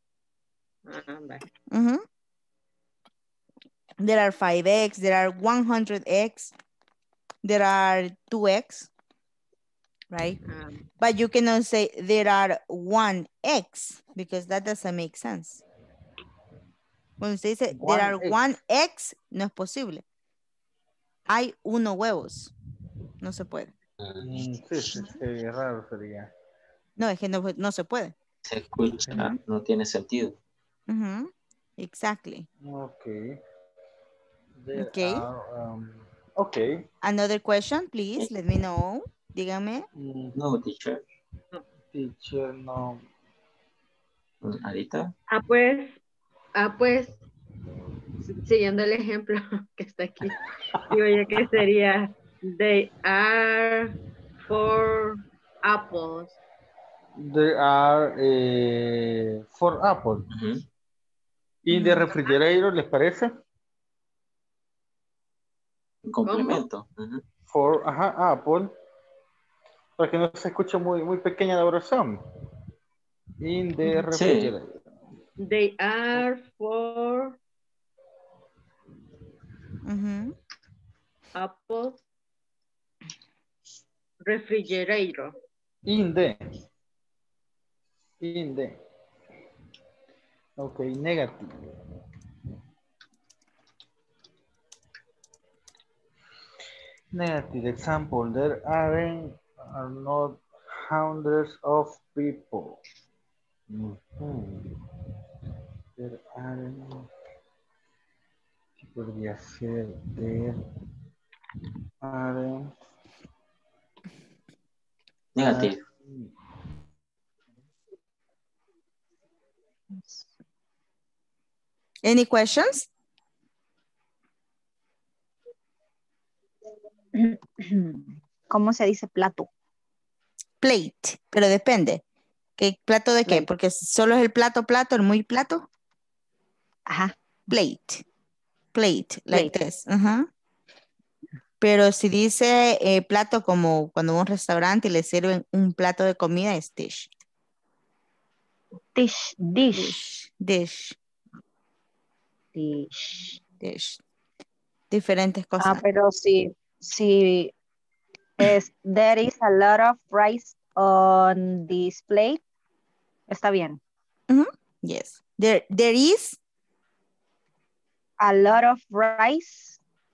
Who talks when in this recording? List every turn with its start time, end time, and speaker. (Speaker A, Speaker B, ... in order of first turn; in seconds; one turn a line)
Speaker A: 0.9-1.4
Speaker B: 1.7-2.0
Speaker B: 4.0-6.5
Speaker B: 7.4-8.9
Speaker B: 10.1-10.4
Speaker A: 10.4-10.8
Speaker B: 11.0-15.6
Speaker B: 17.2-20.0
Speaker C: 17.7-18.4
Speaker B: 21.3-22.5
Speaker B: 23.2-23.7
Speaker D: 24.0-24.6
Speaker C: 24.2-26.3
Speaker B: 27.0-28.1
Speaker D: 28.4-30.4
Speaker B: 30.9-32.5
Speaker C: 32.6-33.4
Speaker C: 34.6-36.8
Speaker B: 34.8-35.3
Speaker B: 37.0-39.9
Speaker C: 40.0-40.4
Speaker D: 40.4-41.0
Speaker C: 41.9-43.0
Speaker D: 44.4-45.1
Speaker A: 45.3-46.0
Speaker A: 46.6-47.2
Speaker A: 48.2-53.9
Speaker A: 54.5-56.4
Speaker C: 57.2-60.2
Speaker D: 60.3-60.6
Speaker C: 61.6-63.3
Speaker B: 61.7-62.0
Speaker D: 66.0-67.2
Speaker A: 66.3-66.6
Speaker C: 67.5-68.7
Speaker C: 70.0-72.2
Speaker C: 73.4-74.8
Speaker D: 74.1-74.5
Speaker A: 75.4-77.4
Speaker B: 79.8-80.3
Speaker A: 81.3-82.0
Speaker A: 84.2-85.3
Speaker C: 85.9-86.4
Speaker C: 88.2-88.8
Speaker C: 90.6-91.6
Speaker C: 97.1-102.8
Speaker C: 103.7-104.8
Speaker C: 106.0-107.1
Speaker C: 108.8-110.6
Speaker C: 112.0-112.7
Speaker D: 115.3-115.8
Speaker C: 115.4-116.3
Speaker B: 122.0-122.9
Speaker E: 127.2-129.5
Speaker B: 130.6-132.0
Speaker B: 132.6-135.7
Speaker E: 136.9-137.1
Speaker B: 137.5-138.0
Speaker B: 138.7-140.3
Speaker B: 141.6-147.1
Speaker E: 148.9-150.0
Speaker B: 149.7-151.0
Speaker E: 152.6-153.4
Speaker B: 153.6-154.0
Speaker B: 154.9-155.8
Speaker E: 155.6-157.5
Speaker E: 158.4-162.4
Speaker E: 163.3-163.8
Speaker B: 164.3-166.4
Speaker E: 168.2-169.8